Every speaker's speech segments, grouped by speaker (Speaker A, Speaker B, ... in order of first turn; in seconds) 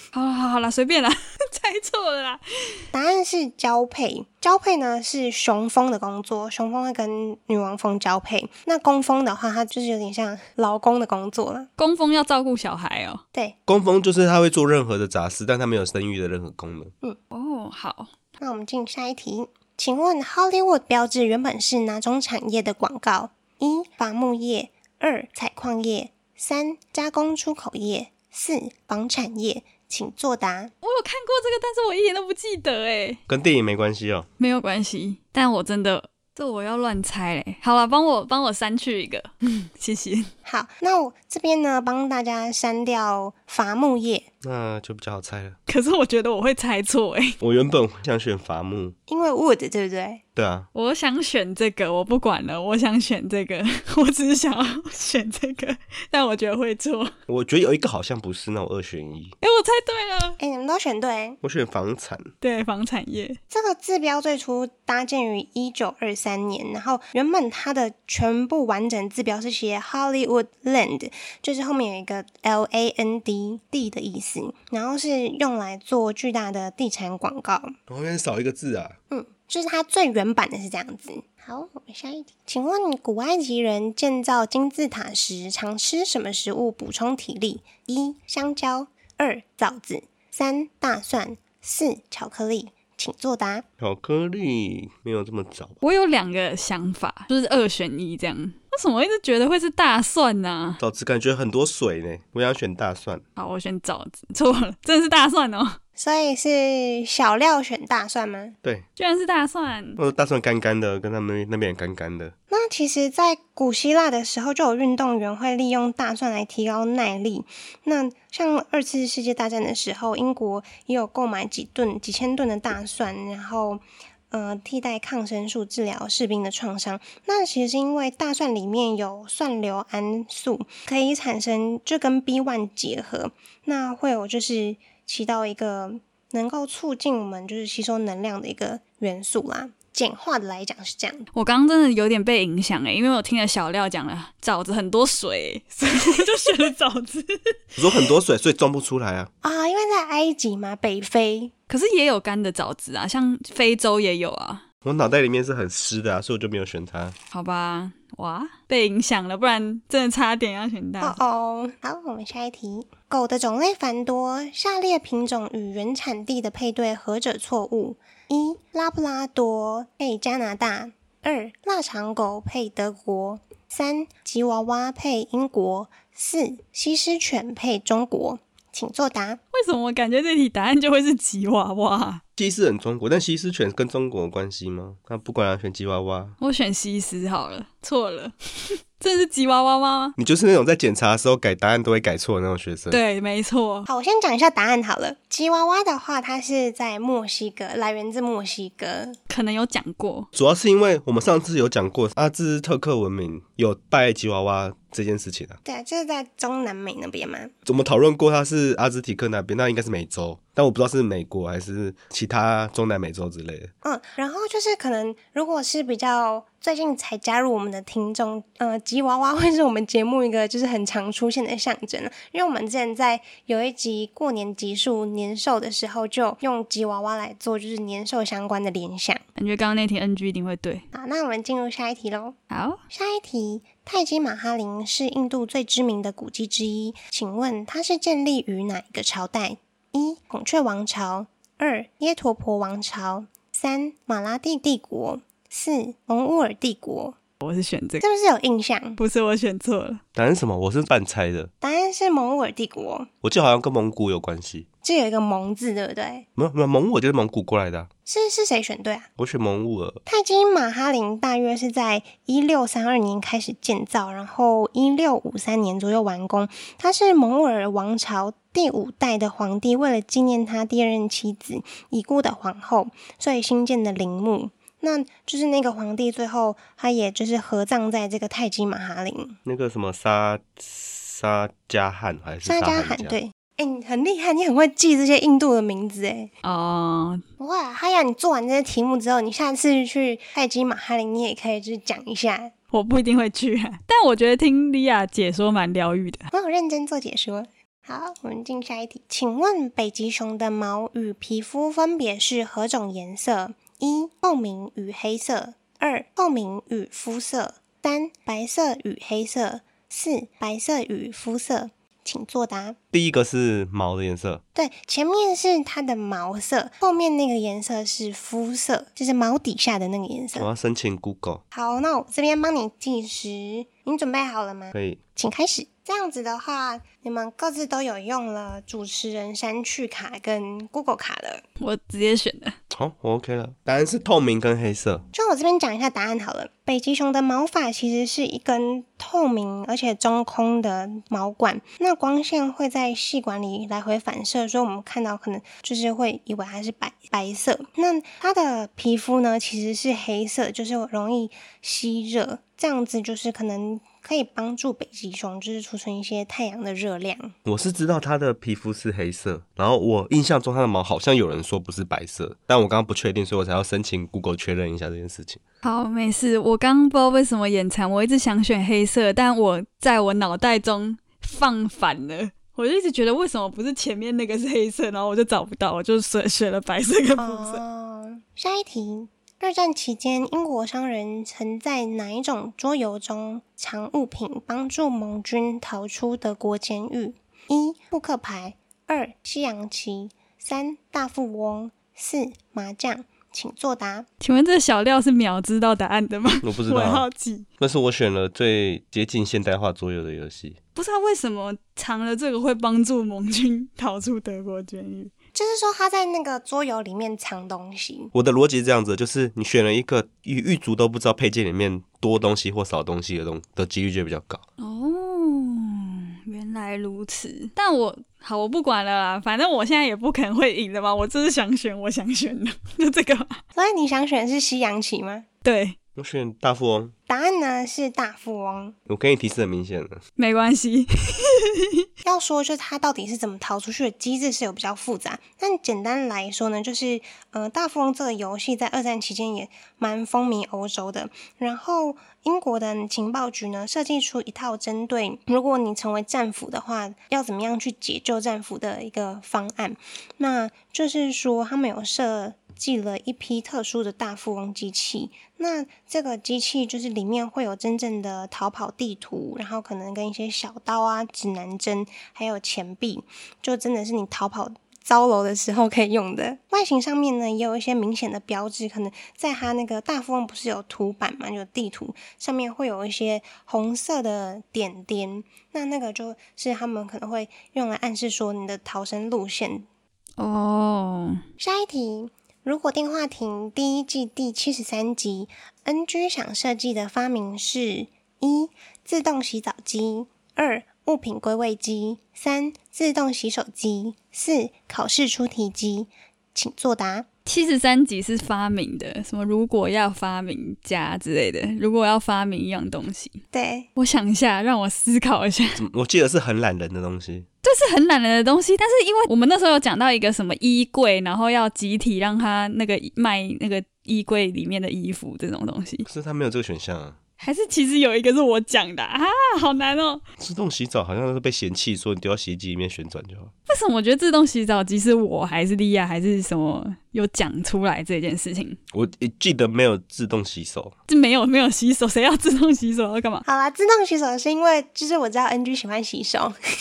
Speaker A: 0.1-2.8, 11.8-13.2, 17.3-18.1, 30.8-33.2, 34.4-40.3, 45.7-47.4, 50.7-57.1, 59.4-60.4, 62.4-63.4, 95.8-100.8, 103.4-105.8, 109.0-110.0, 141.3-147.8, 151.7-154.6, 157.3-161.2, 179.5-182.2, 186.4-190.2, 192.9-193.9, 199.3-200.3, 229.4-230.9, 232.5-232.8, 247.4-248.0, 249.0-250.0, 286.4-287.2, 292.7-296.3, 331.6-332.6, 365.6-377.6, 394.2-397.5, 400.8-405.1, 414.6-423.4, 425.4-425.8, 430.2-431.9, 480.2-481.2, 497.2-503.2, 503.8-505.6, 507.4-515.9, 517.2-520.0, 523.5-528.6, 530.9-533.2
Speaker B: 2.9-11.7, 18.4-30.7, 40.5-44.3, 49.1-50.2, 60.4-61.4, 63.5-77.8, 79.1-93.7, 106.0-108.6, 112.5-141.3, 149.4-151.5, 161.0-179.4, 193.9-199.2, 205.7-207.5, 213.8-229.2, 230.9-232.4, 232.9-247.2, 248.0-249.0, 251.6-253.1, 254.8-256.3, 258.1-259.1, 260.1-279.4, 282.4-286.3, 287.4-292.5, 296.3-312.8, 314.6-320.5, 321.5-331.4, 335.1-357.3, 377.2-394.1, 405.4-408.1, 423.6-425.3, 427.1-428.8, 432.0-479.7, 481.4-497.1, 503.3-503.7, 533.3-536.4
Speaker C: 13.7-16.9, 33.3-34.3, 44.4-45.6, 47.4-49.0, 50.4-50.7, 57.3-59.4, 61.4-62.3, 77.9-79.0, 93.8-95.8, 100.8-103.2, 110.0-112.3, 147.8-149.3, 154.8-157.2, 182.4-186.4, 190.2-193.0, 200.3-205.6, 207.7-213.7, 250.2-251.5, 253.2-254.7, 256.4-257.9, 259.2-260.0, 279.5-283.2, 312.9-314.4, 320.4-321.4, 324.7-325.0, 332.7-335.1, 357.5-365.4, 396.4-397.1, 397.6-400.6, 408.1-414.4, 426.0-426.9, 428.9-430.0, 505.6-507.3, 515.9-517.0, 520.2-523.3, 528.7-530.8